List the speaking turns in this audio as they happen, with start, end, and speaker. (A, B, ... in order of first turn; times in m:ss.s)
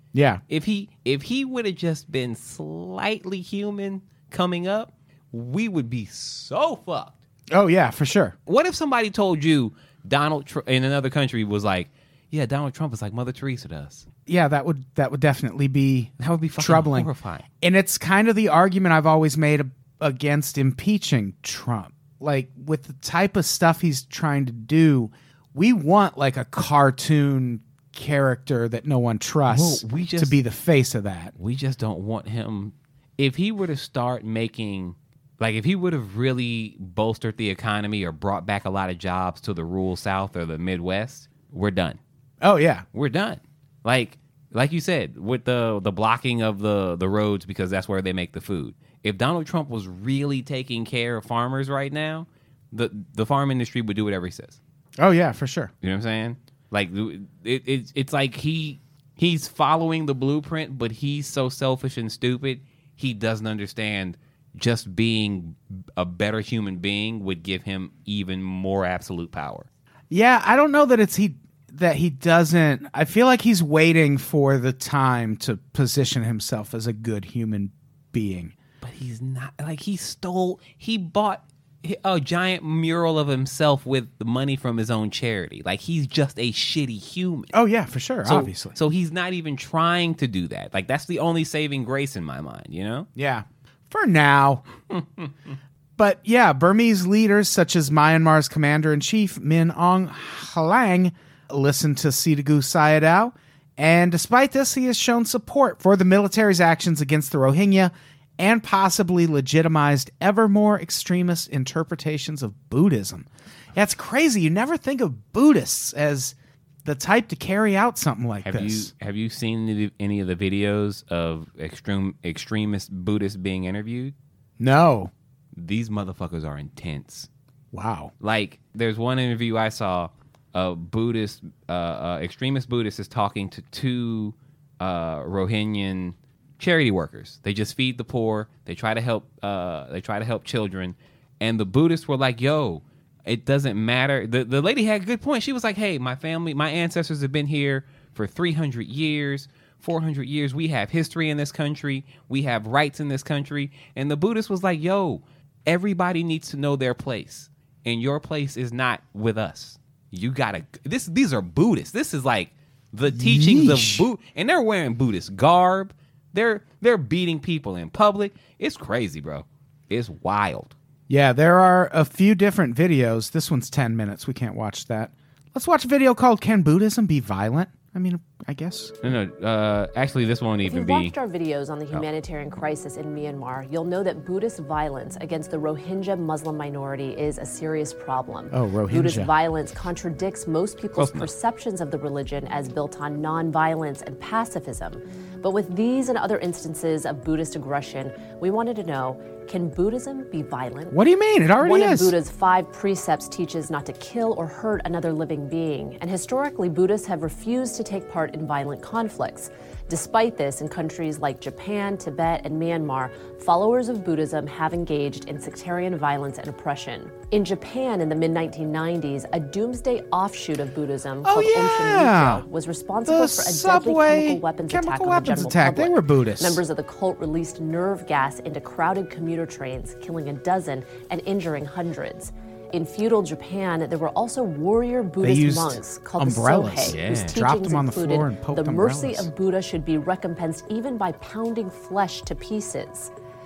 0:00.1-0:00.4 A
0:00.5-0:07.2 B
0:07.5-0:08.3 A
0:08.4-0:14.0 B
0:14.3-0:17.1 A
0:16.2-0:17.4 B
0:17.6-0:31.3 A
0:29.5-0:30.4 B
0:31.4-0:42.0 B
0:42.4-0:42.8 A
0:42.9-0:54.6 B
0:55.0-0:55.7 A
0:55.8-1:09.7 B
1:10.1-1:18.5 A
1:18.8-1:27.5 B
1:27.5-1:28.8 A
1:28.2-1:33.1 B
1:33.2-1:34.6 A
1:34.9-1:35.3 B
1:36.0-1:58.9 A
1:58.4-2:04.1 B
2:04.6-2:05.1 A
2:05.5-2:07.3 B
2:07.7-2:08.1 A
2:08.2-2:50.7 B
2:43.1-2:44.1 A
2:51.1-2:58.9 A
2:59.0-3:01.1 B
3:00.6-3:21.0 C
3:08.5-3:09.3 A
3:11.0-3:11.3 B
3:20.9-3:22.2 A
3:21.6-4:03.1 C
3:41.2-3:42.4 A
3:43.0-3:46.6 A
3:55.2-3:59.3 A
3:56.8-3:57.4 B